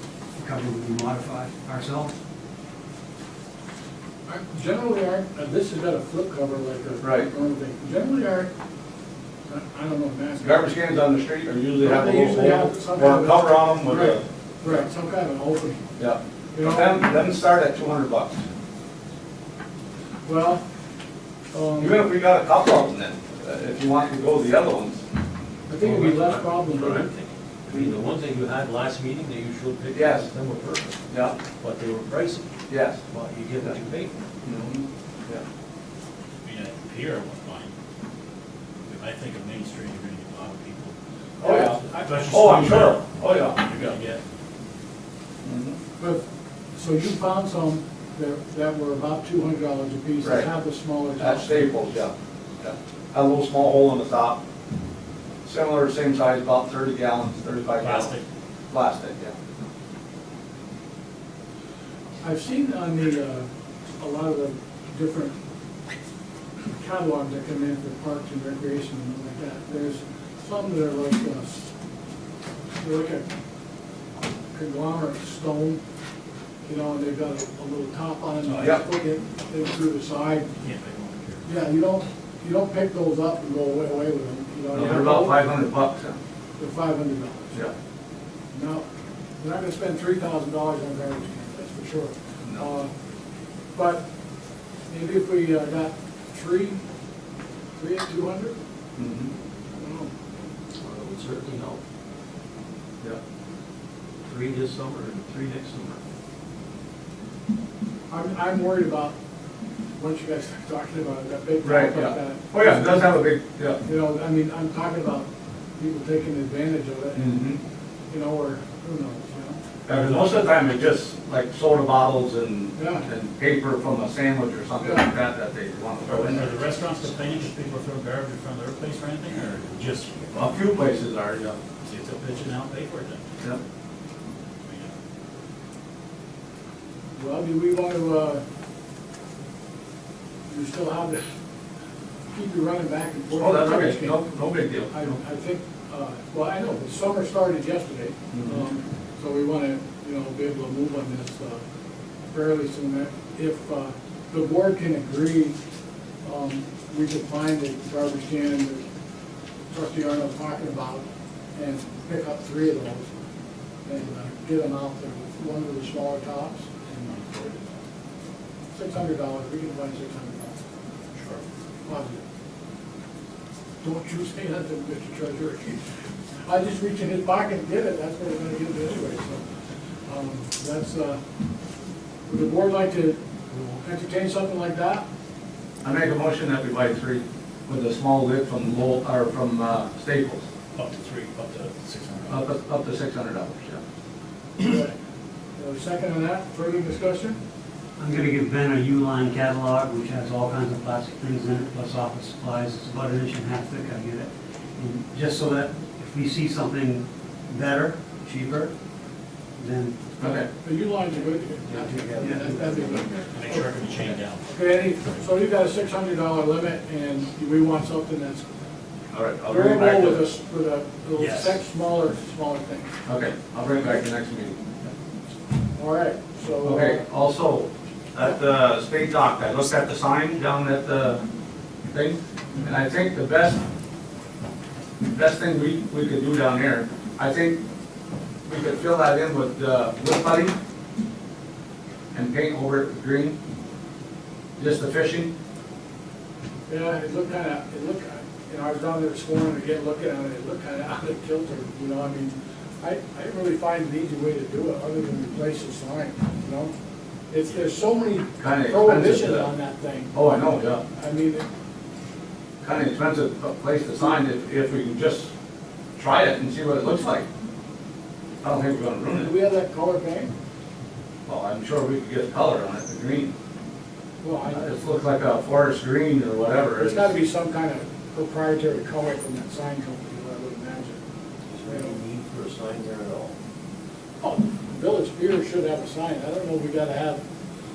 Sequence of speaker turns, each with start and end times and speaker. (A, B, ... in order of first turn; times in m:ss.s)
0:00.4-0:02.1 A
0:04.2-0:08.5 B
0:07.0-0:07.3 C
0:09.5-0:10.7 B
0:10.4-0:14.7 C
0:11.8-0:15.8 B
0:16.0-0:18.4 C
0:16.5-0:17.0 B
0:20.3-0:20.6 B
0:21.5-0:22.0 B
0:21.8-0:25.0 C
0:25.7-0:27.1 B
0:25.8-0:31.0 D
0:29.9-0:30.3 C
0:31.1-0:31.4 C
0:31.6-0:32.5 D
0:32.7-0:33.0 C
0:33.1-0:34.2 D
0:34.4-0:35.4 C
0:36.4-0:37.7 E
0:38.9-0:41.0 E
0:41.4-0:44.0 C
0:41.4-0:42.2 B
0:41.9-0:44.2 E
0:45.4-0:45.8 C
0:46.7-0:51.7 B
0:51.2-0:54.4 C
0:55.4-0:58.1 C
0:57.8-0:58.2 E
0:58.7-0:59.3 C
1:02.2-1:03.4 B
1:04.0-1:05.3 B
1:06.8-1:11.7 B
1:12.8-1:13.3 B
1:14.5-1:15.8 B
1:16.6-1:20.5 B
1:20.6-1:21.5 E
1:21.4-1:25.4 B
1:24.7-1:26.2 C
1:26.6-1:27.6 B
1:28.5-1:28.8 B
1:29.4-1:32.9 B
1:33.7-1:34.0 B
1:34.9-1:36.8 B
1:37.8-1:38.6 B
1:39.0-1:39.3 C
1:39.7-1:40.1 B
1:40.8-1:41.8 D
1:44.3-1:46.0 D
1:48.1-1:49.2 B
1:50.0-1:53.1 B
1:51.6-1:53.8 C
1:53.8-1:55.3 B
1:55.8-1:57.4 B
1:57.2-1:57.6 C
1:58.1-1:59.6 B
1:59.9-2:06.5 C
2:02.8-2:03.0 B
2:04.8-2:05.1 B
2:06.1-2:10.4 E
2:10.3-2:11.6 C
2:11.8-2:13.2 E
2:14.6-2:14.9 E
2:17.2-2:18.4 B
2:20.5-2:21.2 B
2:22.3-2:24.2 B
2:23.4-2:25.1 C
2:24.9-2:31.6 B
2:28.3-2:28.6 C
2:32.3-2:35.6 B
2:36.2-2:38.8 B
2:39.7-2:43.1 B
2:43.8-2:47.2 B
2:46.9-2:47.7 E
2:48.7-2:50.6 B
2:51.1-2:51.4 E
2:51.8-2:52.2 B
2:53.8-2:55.8 B
2:56.4-2:59.4 B
3:00.1-3:01.2 B
3:02.3-3:05.0 B
3:05.8-3:10.4 C
3:10.8-3:12.5 E
3:12.3-3:13.8 C
3:14.6-3:14.9 B
3:15.6-3:17.4 B
3:18.0-3:28.7 A
3:29.6-3:30.0 A
3:30.2-3:30.5 C
3:30.6-3:33.6 B
3:31.7-3:33.2 A
3:33.3-3:34.5 E
3:34.4-3:38.4 B
3:39.1-3:40.2 C
3:39.5-3:42.9 B
3:41.1-3:41.6 E
3:43.0-3:44.6 C
3:45.8-3:47.0 B
3:46.6-3:51.2 C
3:51.9-3:53.6 C
3:55.0-3:57.6 C
3:58.4-4:00.5 C
4:02.1-4:03.4 C
4:04.6-4:05.3 C
4:06.7-4:16.7 B
4:17.3-4:20.1 B
4:18.4-4:19.5 C
4:20.1-4:20.8 C
4:20.9-4:21.4 B
4:22.6-4:25.3 C
4:26.0-4:27.2 C
4:28.4-4:29.3 C
4:29.1-4:30.3 B
4:31.2-4:33.3 C
4:34.2-4:34.8 B
4:34.5-4:37.1 C
4:36.8-4:41.0 B
4:41.6-4:43.3 D
4:41.6-4:41.9 B
4:44.2-4:47.2 B